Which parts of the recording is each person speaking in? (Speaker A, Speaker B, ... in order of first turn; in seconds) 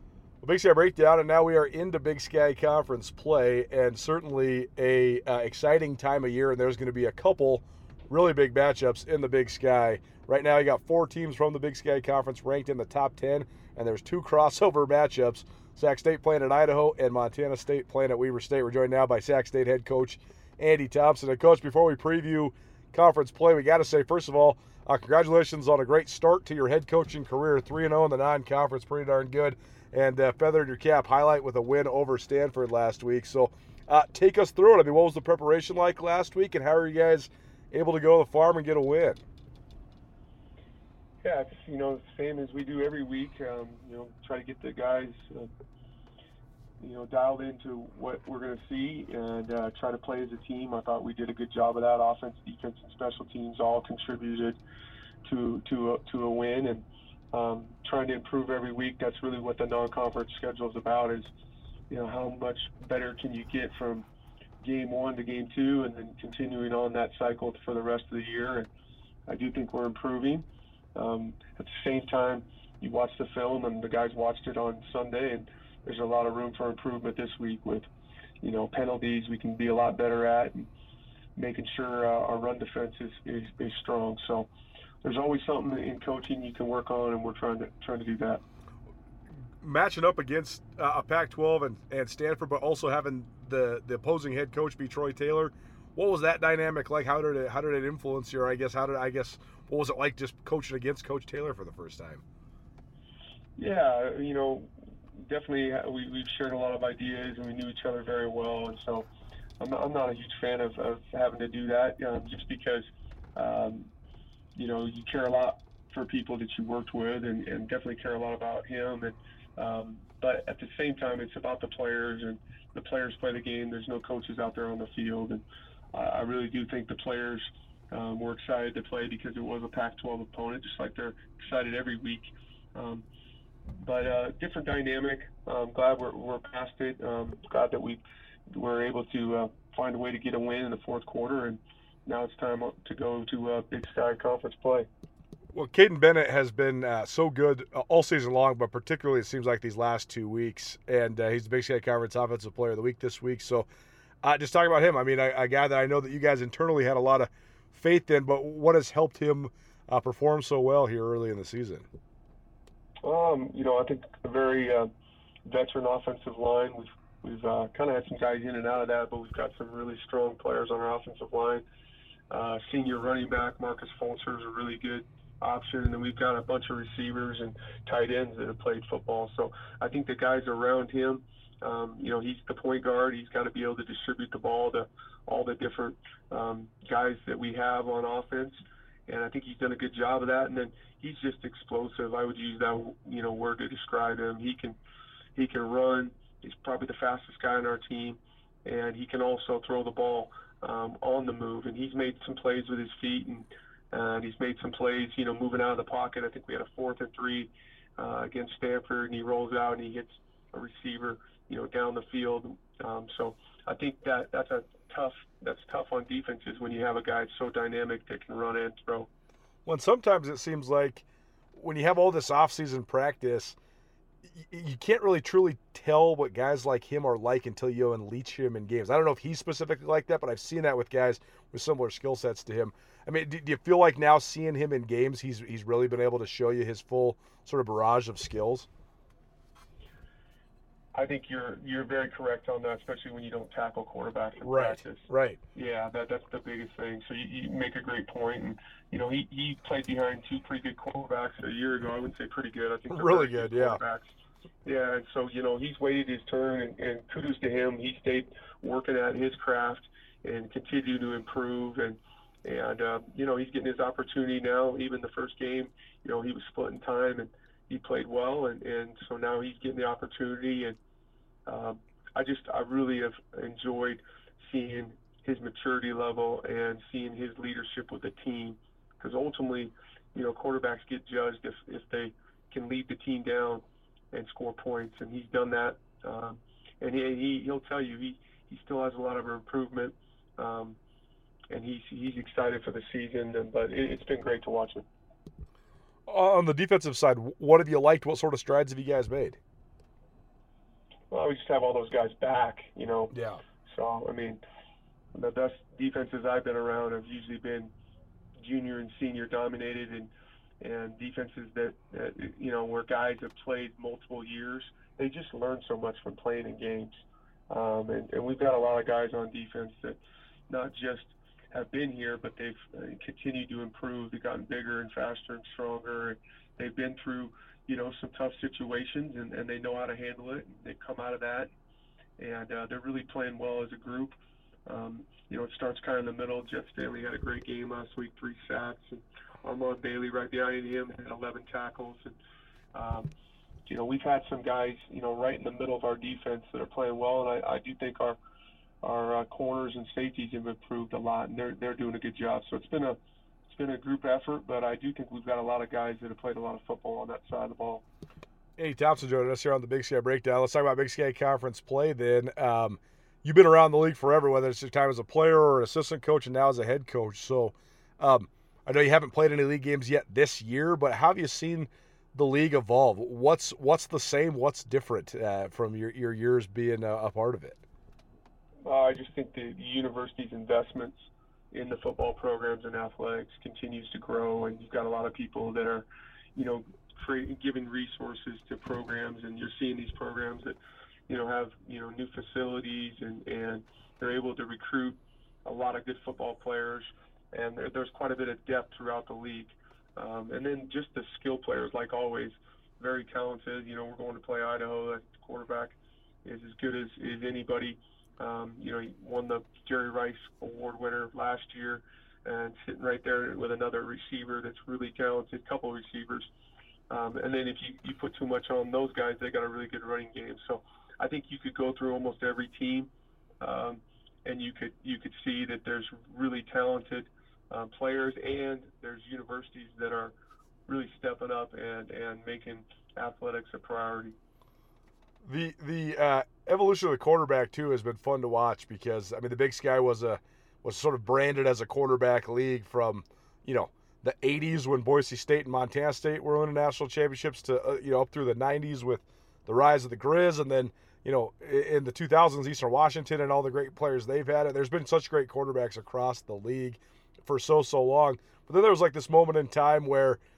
Speaker A: 0.4-39.2, 89.6-102.2, 145.5-153.7, 154.2-161.9, 219.7-221.0, 221.6-223.6, 224.4-238.7, 244.4-245.4, 252.9-253.8, 296.1-299.4, 303.1-303.4, 358.6-377.6, 435.2-460.2
Speaker B: 41.2-45.5, 46.8-54.6, 55.2-61.3, 61.9-64.1, 64.6-68.7, 69.3-77.9, 78.4-80.7, 81.4-84.5, 85.0-88.4, 103.6-109.1, 109.6-113.9, 114.5-133.1, 133.8-138.0, 138.5-144.9, 163.0-164.9, 165.5-171.7, 172.3-194.8, 195.3-219.1, 240.9-254.1, 254.7-270.8, 271.5-290.8, 291.5-294.9, 301.1-303.1, 303.7-304.4, 305.1-307.7, 308.4-317.0, 317.5-320.0, 320.5-331.5, 332.2-334.1, 334.7-342.2, 342.7-343.1, 343.7-348.2, 348.8-353.0, 353.5-357.8, 378.6-390.6, 391.1-416.3, 416.9-422.9, 423.4-430.1, 430.7-434.2